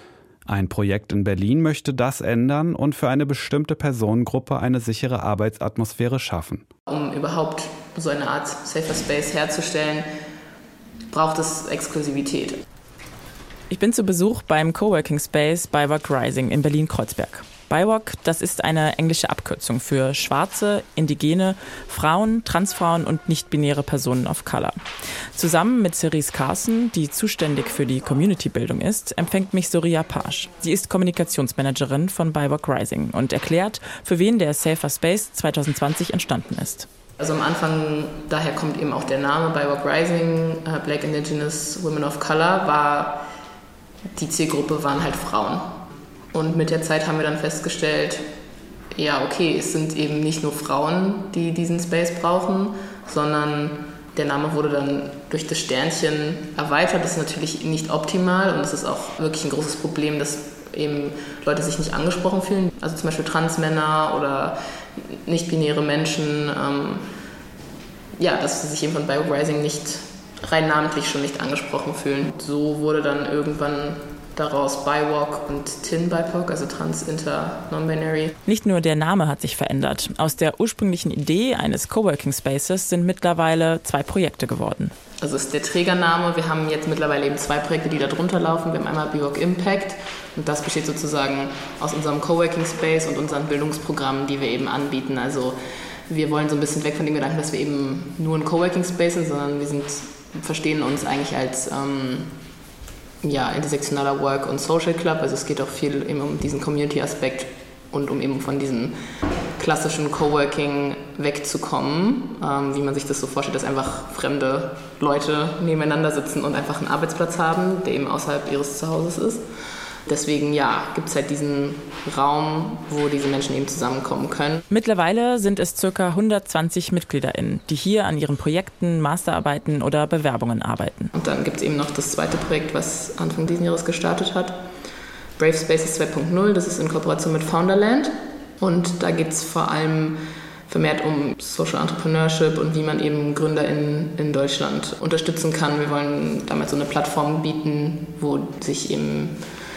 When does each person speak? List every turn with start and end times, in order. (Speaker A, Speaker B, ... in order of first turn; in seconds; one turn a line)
Speaker A: 0.5-6.7
Speaker B: 6.9-10.1
Speaker B: 11.1-12.6
Speaker C: 13.7-24.8
Speaker C: 25.4-36.9
Speaker B: 37.2-43.2
Speaker B: 44.1-45.8
Speaker B: 46.3-48.3
Speaker B: 49.0-67.1
Speaker B: 68.2-78.3
Speaker C: 78.5-84.9
Speaker B: 85.2-102.4
Speaker B: 103.2-109.0
Speaker B: 109.6-119.5
Speaker B: 120.1-124.6
Speaker C: 124.7-131.1
Speaker B: 131.1-134.6
Speaker B: 135.4-149.4